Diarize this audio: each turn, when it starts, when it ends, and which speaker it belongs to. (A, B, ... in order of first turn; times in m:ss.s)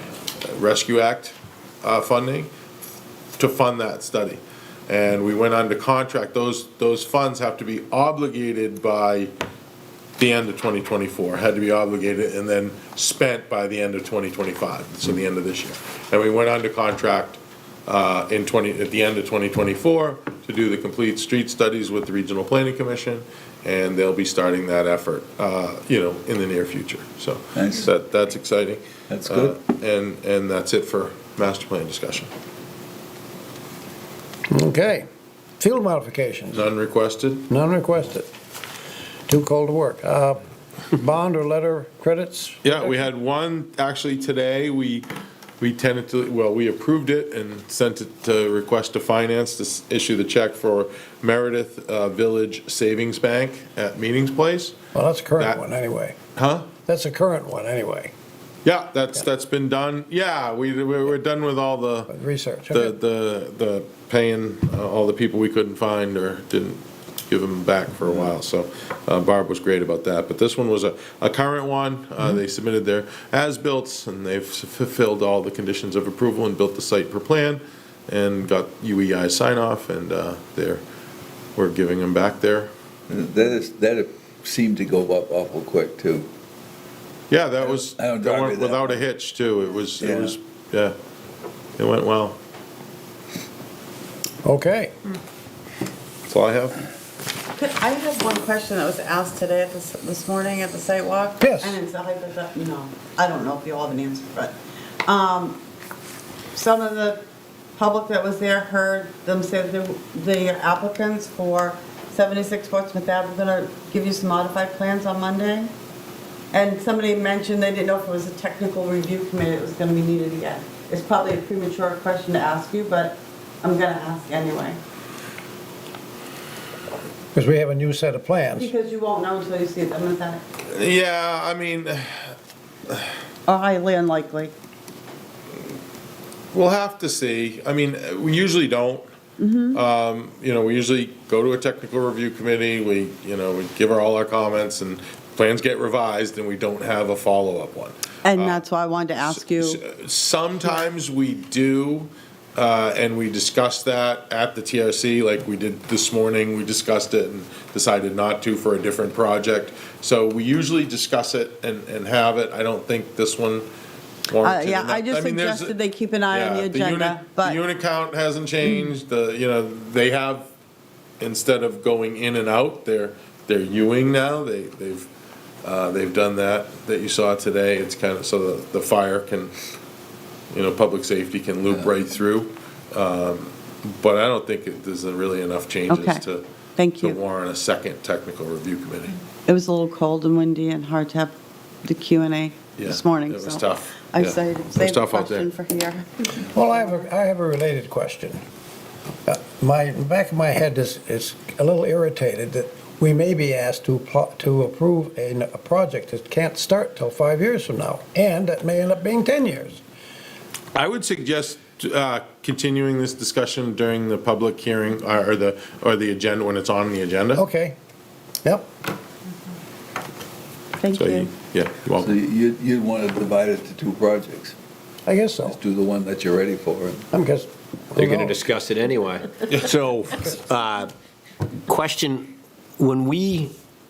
0:00.4-0:02.5 A
0:03.4-0:09.3 A
0:10.2-0:32.3 A
0:27.5-0:27.9 B
0:29.1-0:29.6 B
0:34.5-0:35.1 C
0:35.6-0:36.6 C
0:36.5-0:37.5 A
0:37.5-0:38.3 C
0:39.3-0:40.4 C
0:40.9-0:42.8 C
0:42.6-0:45.1 A
0:45.6-0:54.8 A
0:54.9-0:56.2 C
0:56.4-0:56.7 A
0:56.8-0:58.1 C
0:58.6-1:02.1 A
1:02.1-1:03.0 C
1:02.7-1:20.8 A
1:21.6-1:22.7 A
1:23.1-1:26.3 B
1:27.3-1:30.9 A
1:27.6-1:29.0 B
1:30.0-1:30.3 B
1:31.8-1:32.4 A
1:34.4-1:34.9 C
1:36.3-1:36.8 A
1:37.6-1:45.6 D
1:41.4-1:41.8 C
1:46.5-1:47.2 D
1:47.8-1:55.7 D
1:56.5-2:04.8 D
2:07.3-2:08.7 C
2:08.6-2:10.4 D
2:10.7-2:12.3 A
2:13.5-2:14.5 D
2:16.5-2:19.0 A
2:19.4-2:19.8 D
2:19.7-2:28.6 A
2:28.2-2:29.8 D
2:29.2-2:43.7 A
2:44.3-2:45.7 A
2:44.4-2:47.6 D
2:46.3-2:50.5 A
2:51.2-2:55.1 A
2:55.6-2:59.5 A
3:00.5-3:06.4 A
3:05.9-3:06.2 D
3:06.8-3:07.2 D
3:07.0-3:09.2 A
3:09.5-3:16.6 D
3:12.8-3:15.5 A
3:16.4-3:18.4 C
3:19.2-3:29.8 C
3:30.7-3:37.4 A
3:37.3-3:37.8 C
3:40.8-3:41.3 D
3:40.9-3:42.1 A
3:41.9-3:44.5 B
3:45.0-3:45.6 C
3:45.4-3:47.1 B
3:47.1-3:48.4 C
3:48.0-3:50.9 E
3:51.7-3:53.5 E